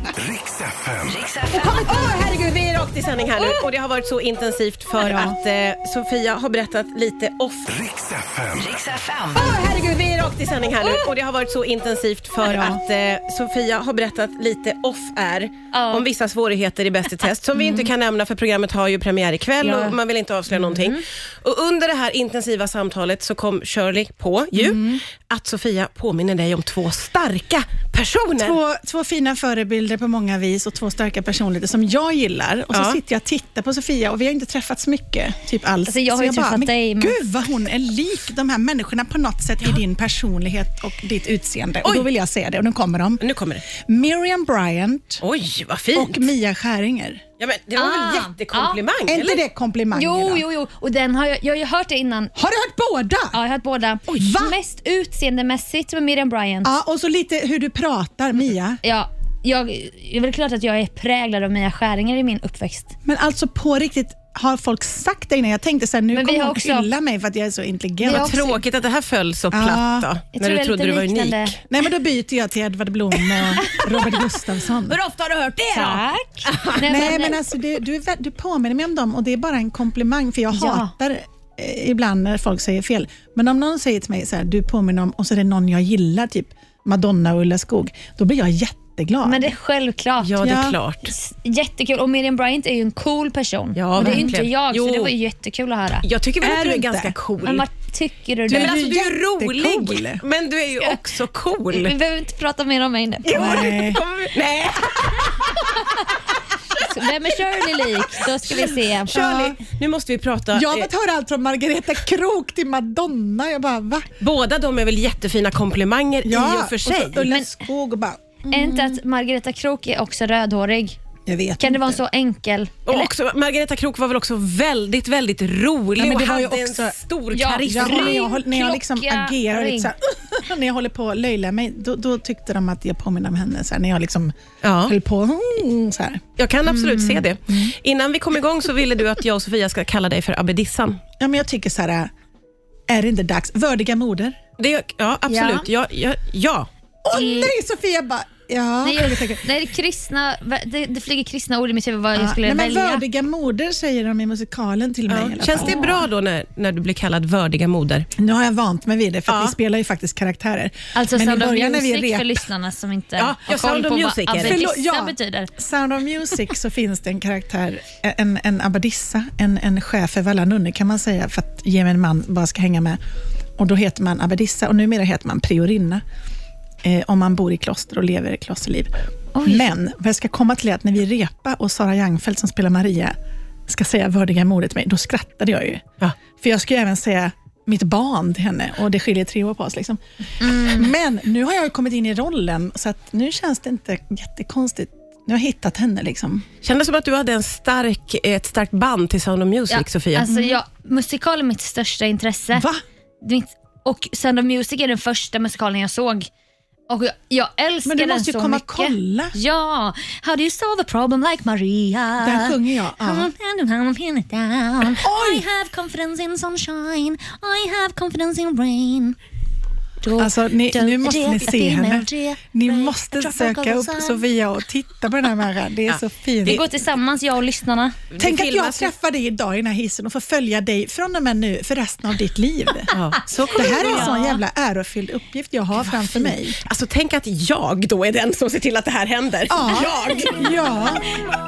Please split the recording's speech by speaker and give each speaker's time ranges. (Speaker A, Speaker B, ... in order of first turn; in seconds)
Speaker A: 0.1-1.4, 7.7-9.1
Speaker B: 1.5-7.7, 9.3-28.6, 32.7-33.0, 43.2-43.6, 45.2-46.3, 47.4-49.4, 68.0-71.6, 75.7-76.9, 90.2-91.1, 93.8-95.1, 96.0-97.7, 98.5-102.0, 103.2-105.8, 109.2-110.9, 114.2-117.3, 122.9-128.2, 134.6-134.9, 136.4-141.0, 144.6-146.7, 155.1-158.1, 159.3-159.5, 163.2-164.6, 196.6-200.3, 225.9-226.6, 228.1-228.9, 232.9-234.1, 235.9-240.5
Speaker C: 1.5-2.1, 5.0-5.4, 12.4-12.8, 24.6-25.0, 28.4-45.2, 46.0-47.2, 49.1-50.4, 52.4-53.4, 54.1-54.6, 56.6-58.8, 63.0-68.4, 69.5-70.1, 71.7-75.0, 76.8-89.5, 90.4-90.8, 94.0-94.3, 96.4-97.2, 98.5-100.2, 103.3-104.0, 109.0-109.6, 110.5-114.1, 116.2-119.0, 121.3-122.0, 126.0-127.0, 127.7-136.2, 141.2-142.1, 142.9-144.4, 147.0-149.4, 152.2-155.8, 158.2-162.4, 164.3-173.0, 173.6-176.0, 176.8-183.2, 183.7-185.8, 186.4-196.5, 202.5-202.8, 207.8-209.4, 212.2-213.3, 215.0-215.5, 220.2-226.7, 228.2-236.6, 239.5-241.0
Speaker D: 15.7-16.1, 19.6-20.0, 35.9-37.2, 47.8-48.8, 49.9-52.3, 53.3-56.7, 58.8-63.0, 66.1-66.9, 68.0-68.6, 70.3-71.6, 73.5-74.4, 74.9-77.4, 80.5-80.9, 89.2-90.5, 91.1-96.1, 97.4-98.8, 101.7-103.6, 106.8-109.6, 117.2-117.5, 118.5-121.0, 121.6-123.1, 127.3-129.9, 136.7-137.2, 145.3-145.7, 147.1-147.5, 148.8-153.1, 155.6-156.1, 160.9-165.5, 179.3-179.7, 190.4-190.9, 199.7-202.7, 203.2-206.3, 206.9-219.2, 220.0-224.2, 226.4-228.0, 233.4-234.4